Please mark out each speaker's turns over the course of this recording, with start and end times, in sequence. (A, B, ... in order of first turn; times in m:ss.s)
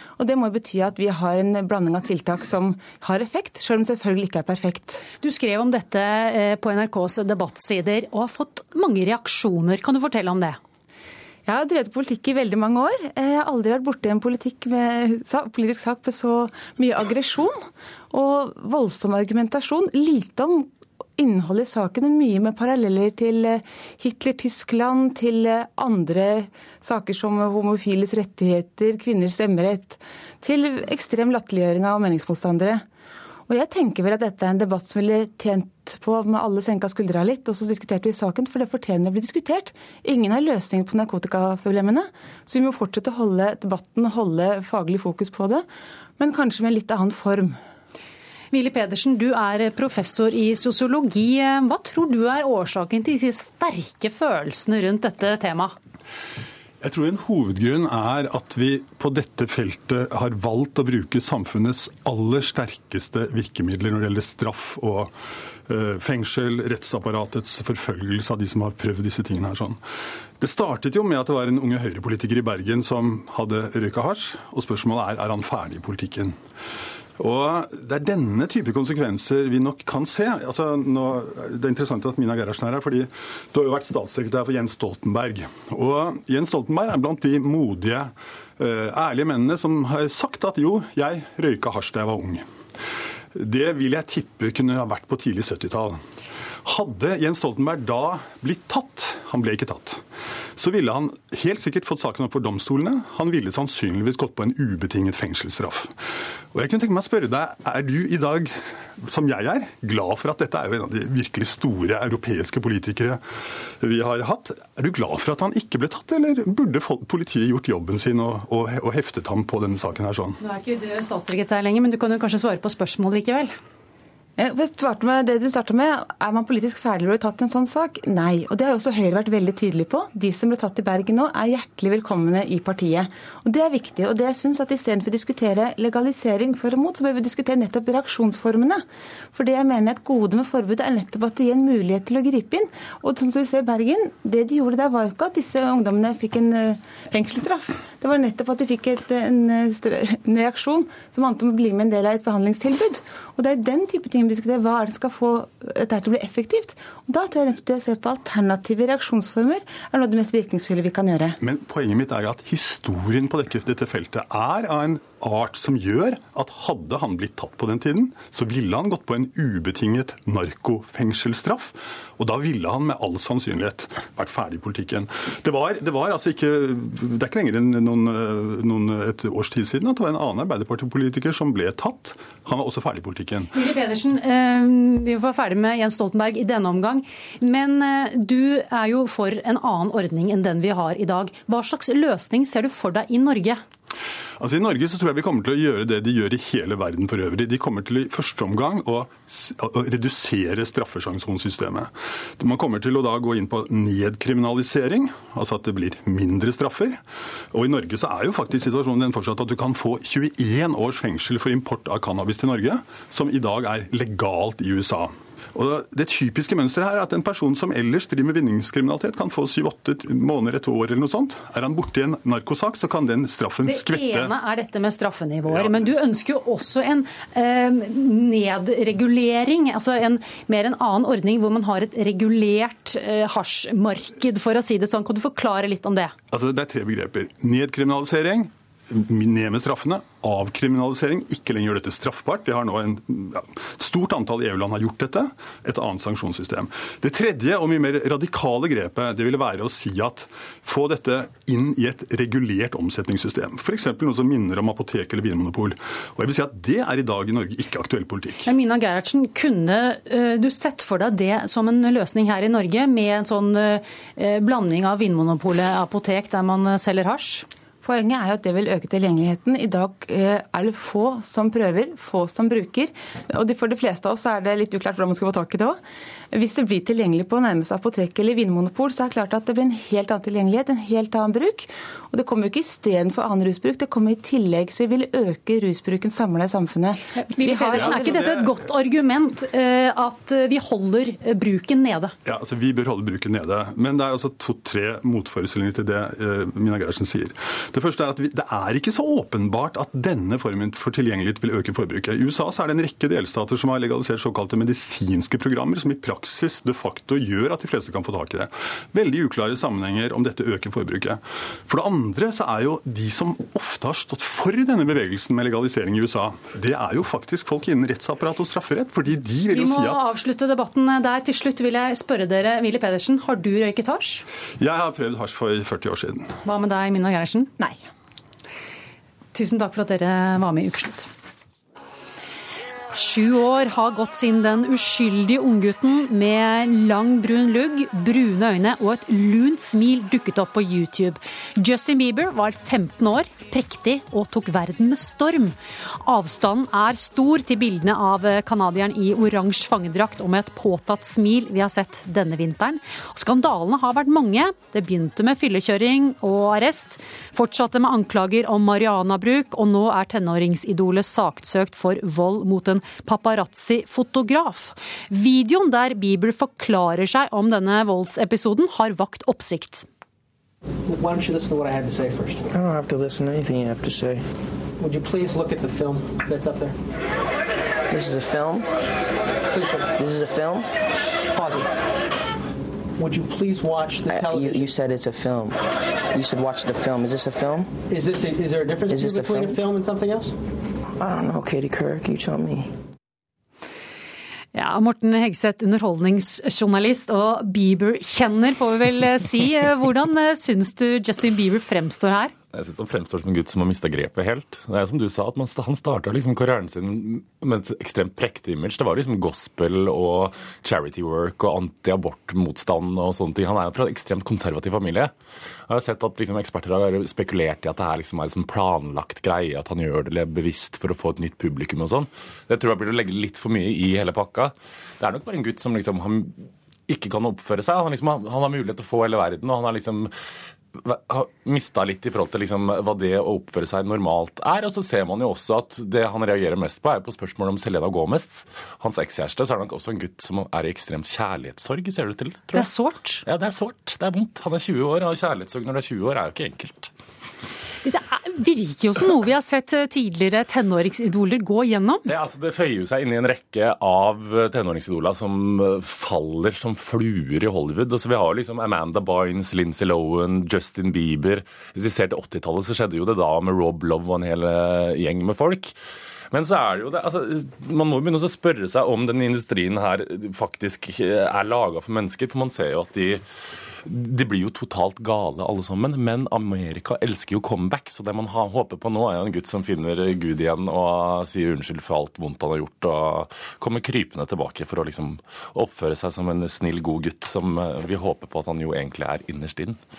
0:00.2-0:05.0 A
0:05.2-0:10.6 B
0:11.4-0:32.8 A
0:33.5-0:45.6 A
0:46.2-0:47.6 A
0:48.5-0:55.7 B
0:56.8-1:05.1 C
1:05.7-1:09.8 C
1:10.4-1:16.4 C
1:17.2-1:32.4 C
1:33.3-1:36.0 C
1:36.6-1:40.0 C
1:40.6-1:45.9 C
1:46.5-1:53.2 C
1:53.8-2:00.4 C
2:00.4-2:03.5 B
2:04.4-2:41.4 A
2:41.4-3:03.5 C
3:03.5-3:13.6 B
3:14.4-3:44.3 C
3:43.6-3:56.1 B
3:45.5-3:46.0 C
3:56.3-4:18.5 C
4:18.4-4:27.4 B
4:27.8-4:35.8 A
4:36.3-4:48.2 A
4:47.2-4:52.1 B
4:47.8-4:48.5 C
4:52.2-5:20.0 C
5:19.5-5:24.2 B
5:24.6-5:26.3 C
5:26.4-5:27.6 B
5:29.3-5:31.1 B
5:32.9-6:09.9 B
6:10.9-6:12.5 D
6:12.5-6:14.2 E
6:14.8-6:16.8 D
6:17.9-6:18.7 E
6:19.5-6:19.9 D
6:20.0-6:20.7 E
6:21.3-6:21.8 D
6:23.0-6:24.6 D
6:24.1-6:25.6 E
6:26.1-6:27.7 E
6:27.9-6:30.4 D
6:28.9-6:29.6 E
6:31.0-6:32.7 E
6:34.5-6:42.3 B
6:42.5-6:55.1 F
6:55.7-7:10.1 F
7:10.8-7:22.6 F
7:22.5-7:23.2 B
7:23.2-7:26.9 F
7:27.8-7:32.0 B
7:32.1-7:45.7 F
7:46.3-7:53.2 F
7:53.8-8:09.8 F